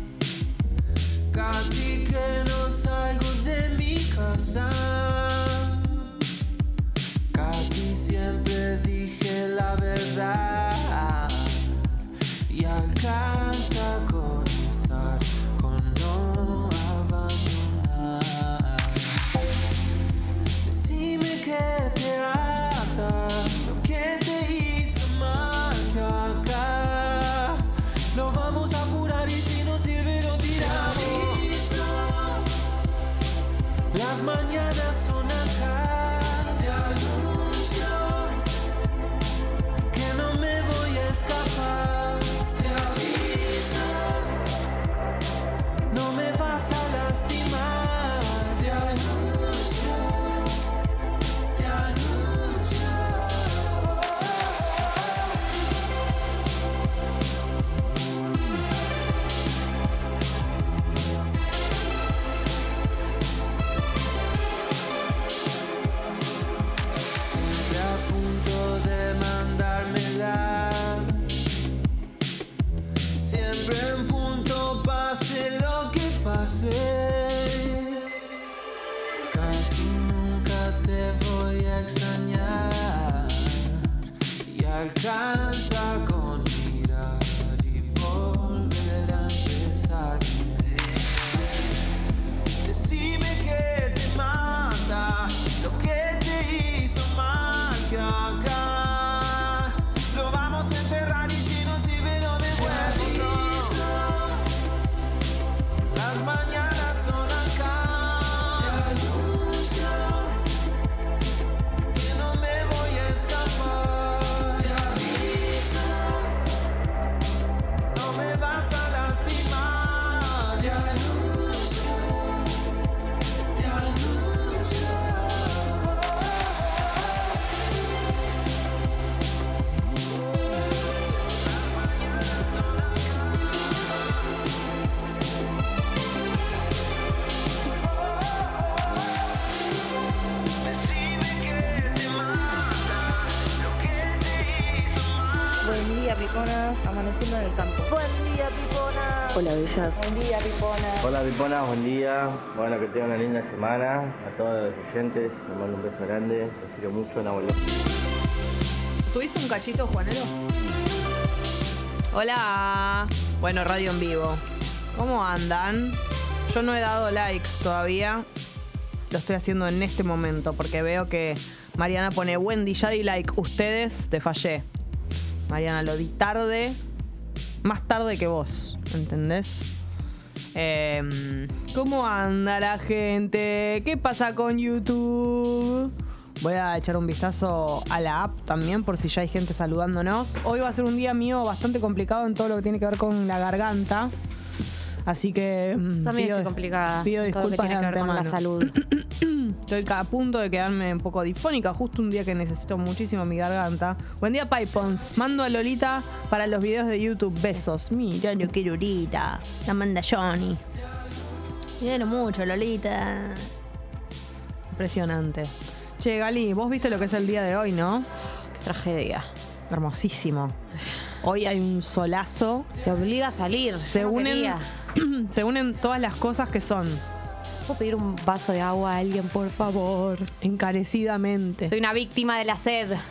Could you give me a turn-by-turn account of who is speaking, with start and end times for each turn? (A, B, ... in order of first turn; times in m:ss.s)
0:01.3-0:06.1 A
0:07.3-0:19.2 A
0:20.6-0:32.5 A
0:33.9-0:38.4 A
0:39.9-0:44.4 A
0:45.9-0:50.6 A
0:51.6-0:54.0 A
1:07.2-1:11.2 A
1:13.2-1:18.0 A
1:19.3-1:31.5 A
1:32.6-1:44.4 A
1:45.9-1:50.4 A
1:51.9-1:56.3 A
1:57.9-2:02.5 A
2:03.6-2:06.0 A
2:20.8-2:23.1 A
2:23.8-2:25.5 A
2:25.6-2:31.1 B
2:31.0-2:37.6 C
2:39.1-2:40.4 D
2:42.1-2:48.3 D
2:49.1-2:54.7 D
2:55.5-2:56.8 D
2:57.6-2:59.7 D
3:00.5-3:14.1 D
3:15.0-3:30.6 D
3:16.0-3:18.8 E
3:31.8-3:33.5 D
3:34.7-3:38.1 D
3:38.6-3:39.3 E
3:39.7-3:40.6 D
3:41.2-3:42.7 D
3:42.8-3:44.7 E
3:43.8-3:47.0 D
3:47.7-3:50.3 E
3:50.4-3:51.7 D
3:51.6-3:53.0 E